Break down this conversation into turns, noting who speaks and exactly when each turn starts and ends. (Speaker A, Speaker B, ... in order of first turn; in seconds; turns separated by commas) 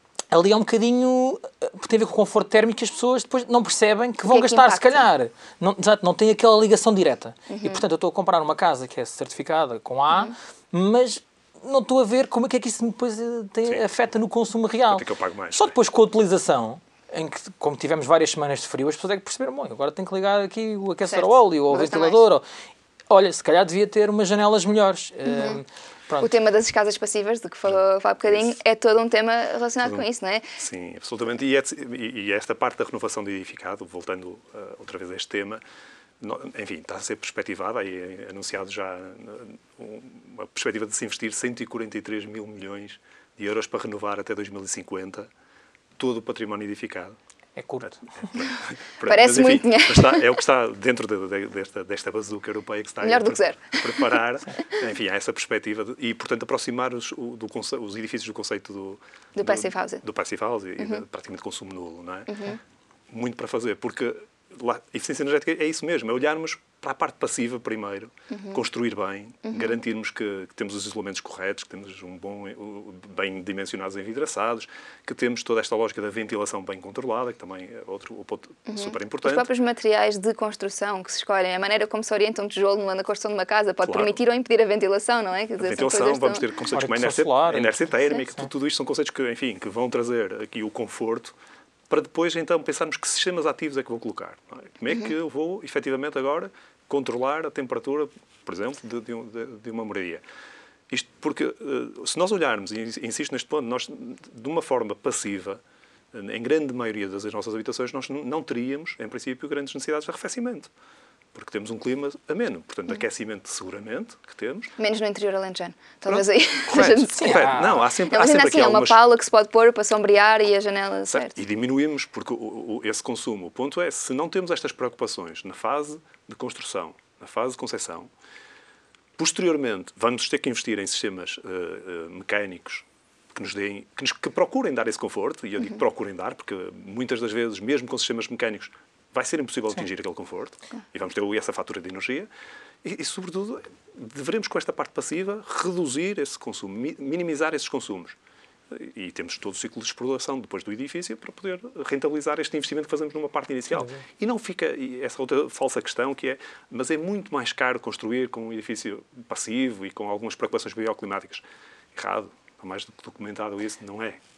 Speaker A: 0.3-22.4, Speaker B: 4.3-5.1, Speaker B: 7.5-7.8, Speaker C: 14.9-15.8, Speaker B: 21.1-22.2, Speaker A: 23.1-26.3, Speaker B: 25.3-25.6, Speaker B: 26.2-30.5, Speaker C: 28.3-28.6, Speaker C: 30.6-35.6, Speaker C: 36.2-45.3, Speaker C: 46.0-47.1, Speaker A: 47.6-48.2, Speaker C: 47.8-62.6, Speaker B: 49.0-50.4, Speaker B: 53.0-54.7, Speaker B: 59.4-60.0, Speaker B: 60.8-61.0, Speaker B: 62.3-62.6, Speaker C: 63.1-79.5, Speaker B: 68.3-68.6, Speaker B: 69.5-69.8, Speaker B: 78.7-86.5, Speaker C: 83.9-84.1, Speaker C: 85.6-91.4, Speaker A: 86.8-87.7, Speaker C: 91.9-100.2, Speaker C: 100.9-105.6, Speaker C: 106.1-110.7, Speaker C: 111.3-114.7, Speaker B: 114.8-121.4, Speaker C: 116.1-119.0, Speaker A: 117.1-117.8, Speaker C: 121.1-128.1, Speaker C: 129.2-142.3, Speaker C: 142.8-148.2, Speaker C: 148.7-161.4, Speaker A: 153.7-154.0, Speaker C: 161.9-164.2